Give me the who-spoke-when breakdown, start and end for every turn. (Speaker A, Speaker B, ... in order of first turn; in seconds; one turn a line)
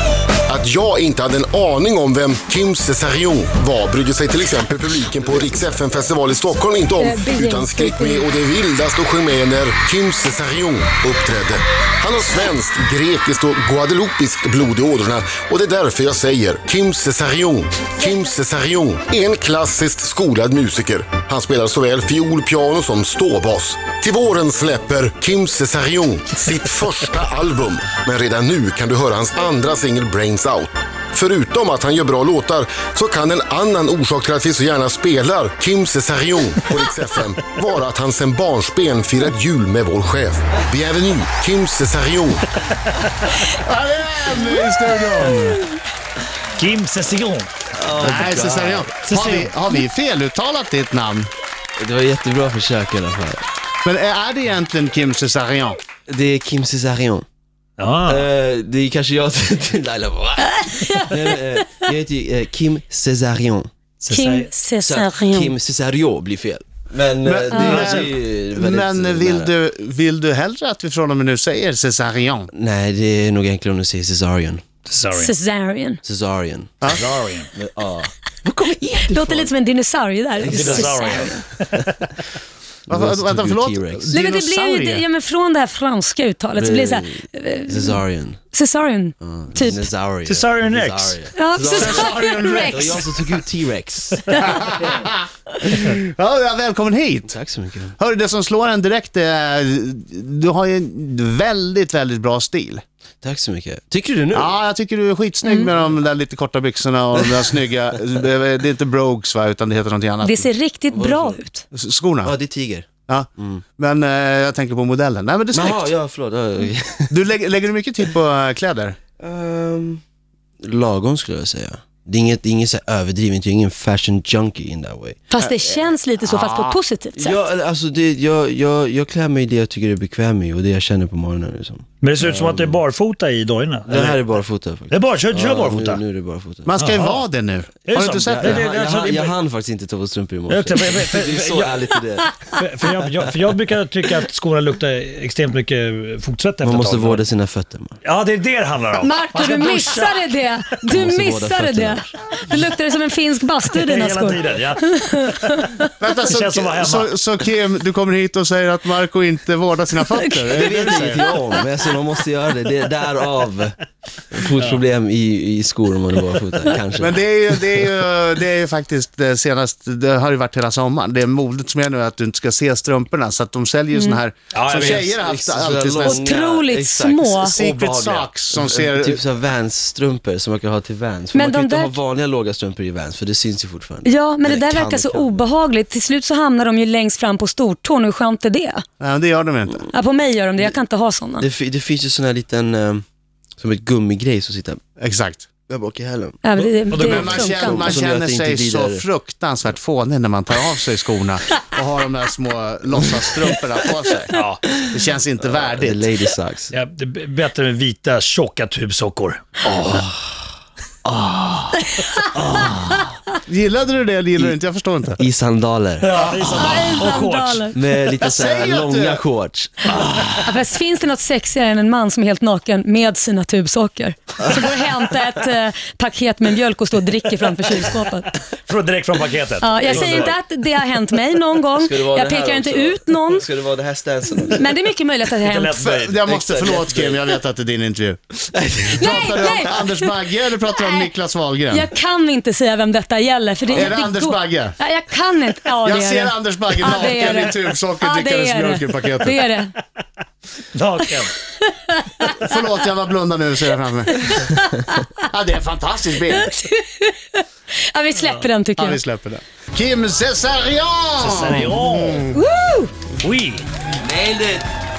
Speaker A: 0.4-42.5
Speaker B: 7.0-8.3
Speaker B: 18.0-18.3
Speaker C: 43.5-45.6
Speaker D: 46.5-47.5
Speaker E: 47.7-49.0
Speaker C: 48.0-51.3
Speaker D: 49.0-49.5
Speaker E: 51.8-53.4
Speaker C: 53.8-55.8
Speaker E: 56.1-57.2
Speaker D: 57.8-58.2
Speaker E: 58.0-63.7
Speaker B: 60.5-61.6
Speaker D: 64.0-64.5
Speaker B: 64.1-65.5
Speaker E: 64.8-69.5
Speaker C: 67.2-72.5
Speaker B: 67.5-67.8
Speaker E: 72.5-74.7
Speaker D: 74.8-75.3
Speaker B: 75.1-76.0
Speaker E: 76.0-76.9
Speaker D: 76.9-77.5
Speaker E: 77.5-79.5
Speaker B: 79.0-81.4
Speaker E: 80.4-81.4
Speaker D: 80.5-82.1
Speaker E: 82.9-84.1
Speaker C: 82.9-85.0
Speaker B: 84.1-89.9
Speaker E: 86.5-88.4
Speaker E: 89.2-95.0
Speaker D: 90.2-91.2
Speaker B: 91.3-93.0
Speaker C: 91.7-93.0
Speaker C: 94.4-97.3
Speaker E: 97.3-97.9
Speaker C: 98.0-102.8
Speaker E: 103.2-104.6
Speaker C: 104.3-110.5
Speaker B: 105.4-105.7
Speaker B: 110.2-111.6
Speaker E: 110.9-111.4
Speaker C: 111.7-112.3
Speaker E: 112.2-113.6
Speaker C: 113.1-115.9
Speaker E: 115.5-117.2
Speaker C: 117.1-119.0
Speaker E: 119.2-120.0
Speaker E: 120.6-125.2
Speaker B: 125.3-127.4
Speaker C: 125.4-126.8
Speaker E: 127.2-132.8
Speaker D: 132.0-134.2
Speaker E: 133.8-136.7
Speaker D: 134.9-136.0
Speaker C: 136.7-138.6
Speaker D: 136.8-137.2
Speaker D: 137.9-139.4
Speaker E: 138.3-142.3
Speaker D: 140.5-147.2
Speaker E: 146.6-148.0
Speaker D: 148.0-150.3
Speaker B: 149.0-155.9
Speaker E: 150.9-152.1
Speaker D: 153.7-155.7
Speaker C: 156.0-161.2
Speaker D: 156.2-157.1
Speaker B: 160.1-160.6
Speaker E: 160.5-167.2
Speaker D: 164.5-164.8
Speaker C: 167.0-176.3
Speaker B: 173.9-174.2
Speaker D: 174.5-175.1
Speaker E: 174.7-185.4
Speaker B: 176.0-177.6
Speaker C: 177.4-179.2
Speaker B: 181.3-181.9
Speaker B: 184.0-188.8
Speaker C: 189.0-189.9
Speaker B: 189.9-191.4
Speaker E: 191.4-193.0
Speaker E: 193.6-194.8
Speaker C: 195.0-195.5
Speaker E: 195.7-196.4
Speaker B: 196.4-197.9
Speaker D: 196.6-197.4
Speaker C: 197.0-206.1
Speaker E: 197.1-199.0
Speaker D: 204.3-204.6
Speaker E: 205.8-206.7
Speaker D: 206.7-210.0
Speaker E: 209.8-210.2
Speaker E: 211.0-211.8
Speaker D: 212.3-213.0
Speaker E: 212.4-213.0
Speaker C: 213.5-215.2
Speaker E: 215.2-216.1
Speaker D: 216.0-217.7
Speaker C: 216.2-216.9
Speaker B: 216.5-217.8
Speaker E: 217.7-220.0
Speaker C: 218.2-219.2
Speaker D: 219.9-220.4
Speaker B: 220.4-228.3
Speaker D: 228.7-230.3
Speaker B: 229.6-233.5
Speaker E: 229.8-230.3
Speaker E: 231.8-234.7
Speaker B: 234.4-235.8
Speaker D: 235.4-236.5
Speaker C: 235.8-238.2
Speaker E: 236.5-237.3
Speaker E: 238.5-239.2
Speaker C: 238.9-241.9
Speaker B: 238.9-241.1
Speaker B: 241.7-249.7
Speaker C: 243.7-244.8
Speaker C: 245.8-249.4
Speaker D: 250.7-251.3
Speaker B: 251.5-252.6
Speaker C: 252.3-254.3
Speaker B: 254.1-255.1
Speaker C: 255.3-256.5
Speaker B: 256.3-259.0
Speaker C: 258.8-262.4
Speaker D: 261.2-262.3
Speaker B: 262.3-262.9
Speaker D: 263.2-263.7
Speaker E: 264.0-264.7